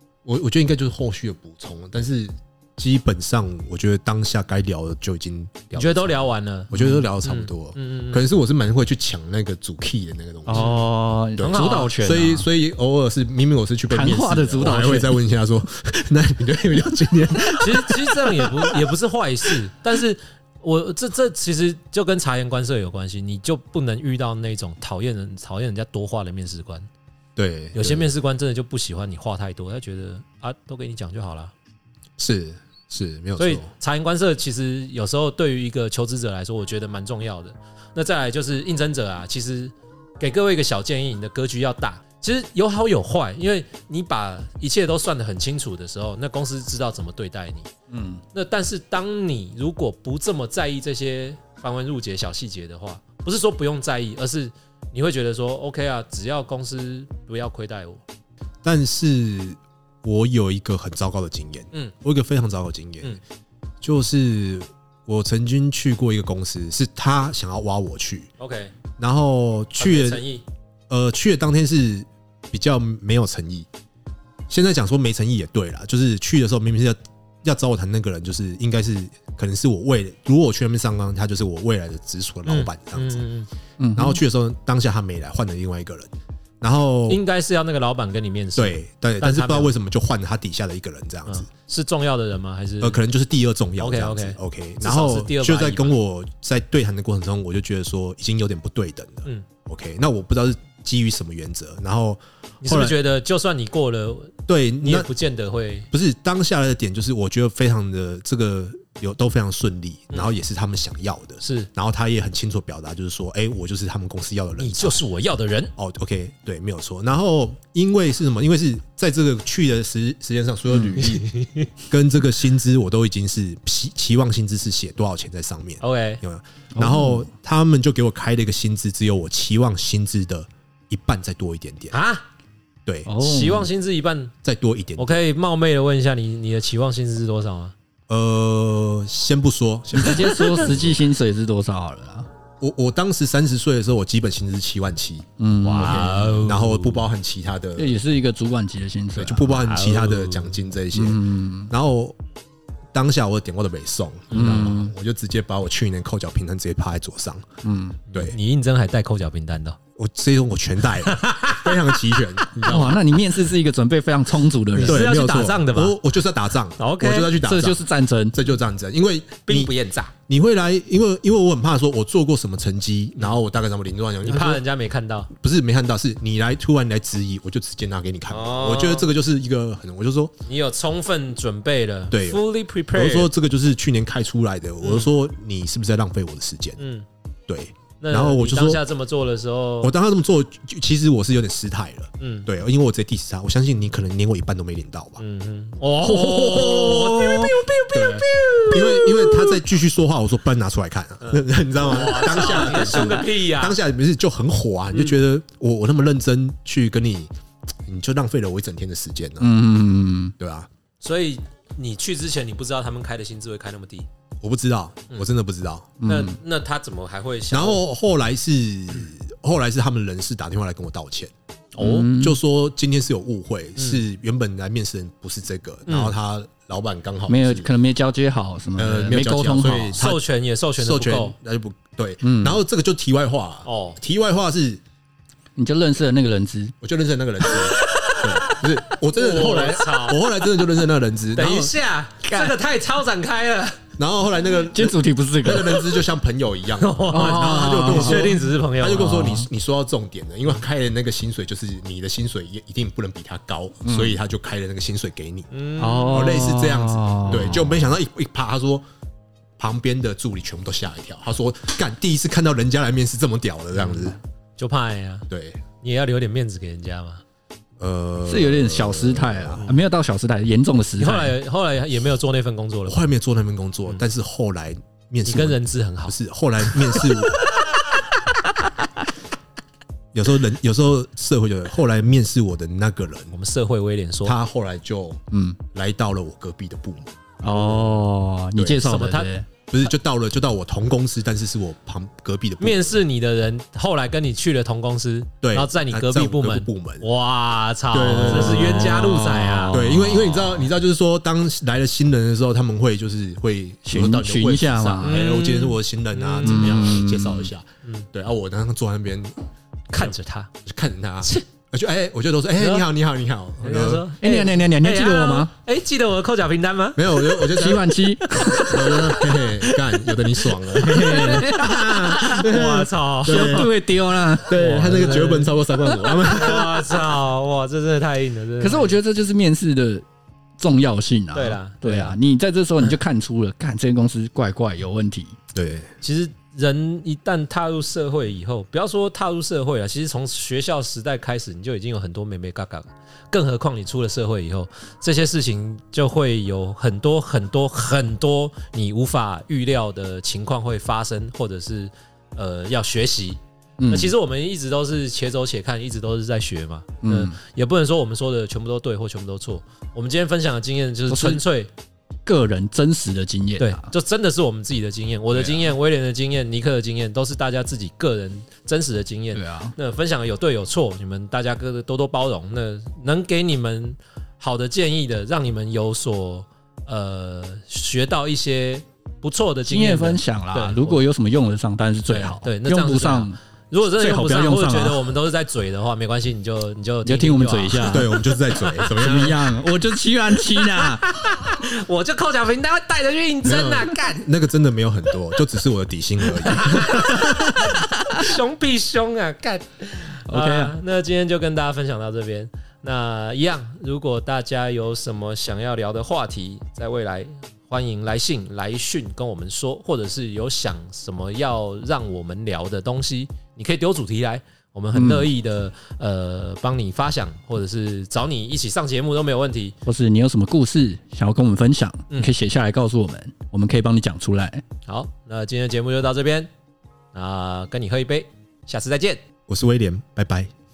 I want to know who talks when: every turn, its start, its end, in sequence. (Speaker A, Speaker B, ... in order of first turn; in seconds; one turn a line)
Speaker A: 0.2-10.8
Speaker B: 5.7-8.3
Speaker C: 6.7-7.0
Speaker C: 10.5-12.5
Speaker B: 10.6-10.8
Speaker A: 11.4-18.9
Speaker B: 11.4-12.2
Speaker C: 13.9-15.2
Speaker B: 17.6-26.9
Speaker A: 27.4-28.1
Speaker B: 27.8-31.5
Speaker A: 32.2-33.7
Speaker B: 33.4-47.7
Speaker C: 47.9-48.2
Speaker B: 48.3-58.0
Speaker A: 58.6-63.2
Speaker A: 63.8-68.3
Speaker B: 68.4-68.7
Speaker A: 69.0-70.2
Speaker B: 69.8-70.4
Speaker A: 70.9-73.7
Speaker A: 74.5-83.2
Speaker B: 82.5-83.5
Speaker C: 83.8-84.2
Speaker A: 84.0-87.2
Speaker B: 87.1-89.7
Speaker A: 88.6-91.5
Speaker B: 91.3-93.0
Speaker A: 92.8-103.0
Speaker B: 93.8-96.0
Speaker B: 102.6-105.9
Speaker A: 104.5-105.1
Speaker A: 105.9-115.0
Speaker B: 111.4-111.7
Speaker B: 114.6-115.7
Speaker A: 115.8-131.9
Speaker B: 121.0-121.7
Speaker B: 125.8-126.2
Speaker C: 126.8-127.3
Speaker B: 131.9-132.2
Speaker C: 133.1-133.7
Speaker B: 133.2-134.3
Speaker A: 134.4-135.2
Speaker B: 135.0-137.7
Speaker A: 138.1-141.0
Speaker C: 139.9-142.3
Speaker A: 142.6-148.0
Speaker C: 145.4-146.4
Speaker B: 145.7-147.1
Speaker C: 147.8-149.6
Speaker A: 149.2-152.2
Speaker B: 149.6-150.6
Speaker C: 150.9-151.7
Speaker A: 152.9-157.4
Speaker C: 154.3-154.9
Speaker C: 157.6-158.0
Speaker B: 158.1-159.8
Speaker A: 160.0-163.0
Speaker B: 161.0-161.9
Speaker C: 162.7-165.1
Speaker B: 164.7-166.0
Speaker A: 164.8-169.7
Speaker B: 166.8-167.4
Speaker C: 167.4-168.4
Speaker B: 169.4-170.1
Speaker A: 170.3-174.6
Speaker B: 174.2-175.3
Speaker A: 175.3-180.3
Speaker B: 178.3-179.1
Speaker B: 180.5-183.3
Speaker A: 182.1-182.4
Speaker A: 182.9-186.8
Speaker B: 184.8-185.1
Speaker B: 186.8-187.1
Speaker A: 187.5-188.8
Speaker B: 188.0-189.9
Speaker A: 189.8-195.2
Speaker B: 192.2-192.5
Speaker B: 195.2-198.8
Speaker C: 196.0-199.6
Speaker A: 196.8-197.1
Speaker A: 197.9-207.3
Speaker B: 201.2-203.8
Speaker A: 207.9-209.6
Speaker C: 209.4-210.3
Speaker A: 210.4-210.7
Speaker B: 211.0-214.1
Speaker A: 214.4-216.0
Speaker C: 216.0-216.4
Speaker B: 216.1-217.8
Speaker A: 217.5-227.7
Speaker C: 221.8-222.4
Speaker B: 223.8-224.0
Speaker B: 225.9-226.2
Speaker C: 227.3-230.0
Speaker A: 228.8-230.2
Speaker B: 230.0-231.3
Speaker A: 230.8-234.8
Speaker C: 232.2-232.6
Speaker B: 233.7-234.0
Speaker C: 235.6-236.7
Speaker A: 236.8-241.7
Speaker B: 237.6-240.2
Speaker B: 241.4-243.8
Speaker C: 242.3-242.6
Speaker A: 244.0-255.5
Speaker C: 244.7-245.9
Speaker B: 246.8-249.3
Speaker C: 247.1-248.4
Speaker C: 248.9-249.5
Speaker C: 253.8-254.2
Speaker B: 255.5-256.4
Speaker C: 255.8-257.9
Speaker A: 256.0-258.9
Speaker A: 259.6-264.2
Speaker B: 263.8-265.3
Speaker A: 265.3-265.6
Speaker B: 265.8-267.2
Speaker A: 267.8-269.7
Speaker C: 268.2-271.4
Speaker B: 271.0-273.0
Speaker A: 272.9-277.4
Speaker B: 275.3-276.2
Speaker A: 280.1-283.4
Speaker B: 283.3-284.4
Speaker A: 284.2-285.2
Speaker C: 285.3-285.6
Speaker A: 285.7-287.1
Speaker C: 287.4-289.5
Speaker A: 288.6-288.9
Speaker B: 288.8-289.3
Speaker A: 289.7-293.0
Speaker B: 292.6-299.8
Speaker A: 295.4-297.1
Speaker A: 297.9-309.4
Speaker C: 298.2-300.4
Speaker C: 303.9-305.2
Speaker B: 305.0-306.9
Speaker C: 306.4-307.5
Speaker B: 309.9-310.5
Speaker A: 310.6-314.1
Speaker B: 312.6-312.9
Speaker B: 313.6-317.5
Speaker C: 314.2-315.5
Speaker A: 317.0-317.9
Speaker C: 317.5-319.3
Speaker B: 318.4-323.7
Speaker A: 318.7-323.7
Speaker C: 320.8-322.5
Speaker C: 323.2-325.0
Speaker A: 324.4-327.1
Speaker B: 324.5-325.5
Speaker B: 326.3-329.0
Speaker C: 328.6-330.1
Speaker C: 330.6-335.4
Speaker B: 331.3-332.2
Speaker A: 335.5-335.9
Speaker B: 336.0-361.7
Speaker C: 353.8-354.1
Speaker C: 357.0-357.4
Speaker C: 361.1-361.4
Speaker C: 362.3-363.9
Speaker B: 363.6-381.0
Speaker A: 365.3-365.7
Speaker C: 369.3-369.8
Speaker C: 379.6-385.0
Speaker B: 382.1-389.4
Speaker C: 387.0-388.1
Speaker A: 387.8-389.4
Speaker C: 388.9-391.1
Speaker B: 390.6-394.3
Speaker A: 393.4-397.8
Speaker B: 396.4-419.8
Speaker C: 398.0-398.3
Speaker C: 400.3-400.8
Speaker C: 414.9-415.3
Speaker C: 419.9-424.6
Speaker B: 424.9-426.5
Speaker B: 427.1-429.2
Speaker A: 429.5-430.5